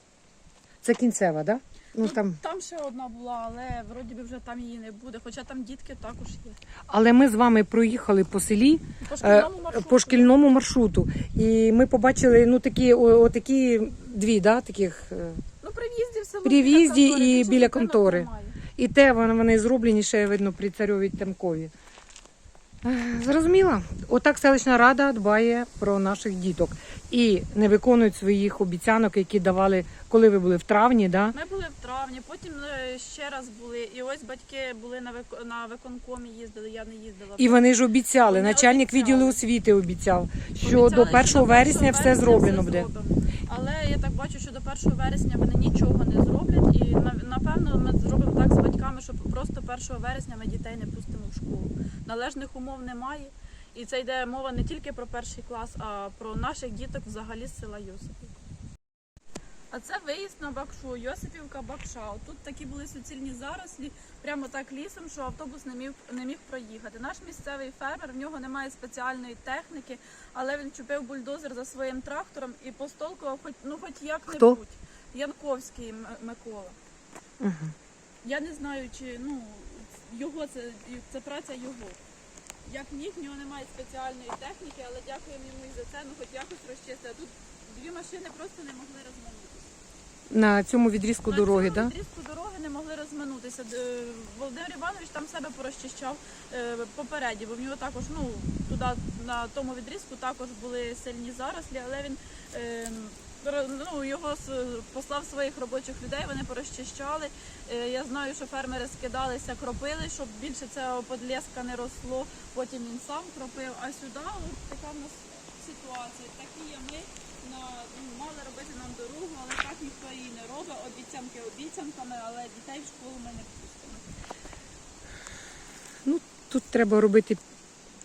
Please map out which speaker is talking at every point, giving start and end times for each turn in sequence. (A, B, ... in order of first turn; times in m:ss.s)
0:00.8-0:02.4 A
0:02.0-0:06.6 B
0:06.9-0:15.4 A
0:09.0-0:10.4 B
0:15.6-0:18.6 B
0:16.4-0:21.7 A
0:22.8-0:31.4 A
0:31.3-0:39.4 B
0:37.4-0:42.9 A
0:40.6-0:58.4 B
0:59.7-1:16.8 B
1:14.3-1:14.6 A
1:17.4-1:17.7 A
1:18.2-1:22.0 B
1:22.6-1:29.7 B
1:30.3-1:31.9 A
1:31.2-2:04.1 B
2:06.0-2:07.4 A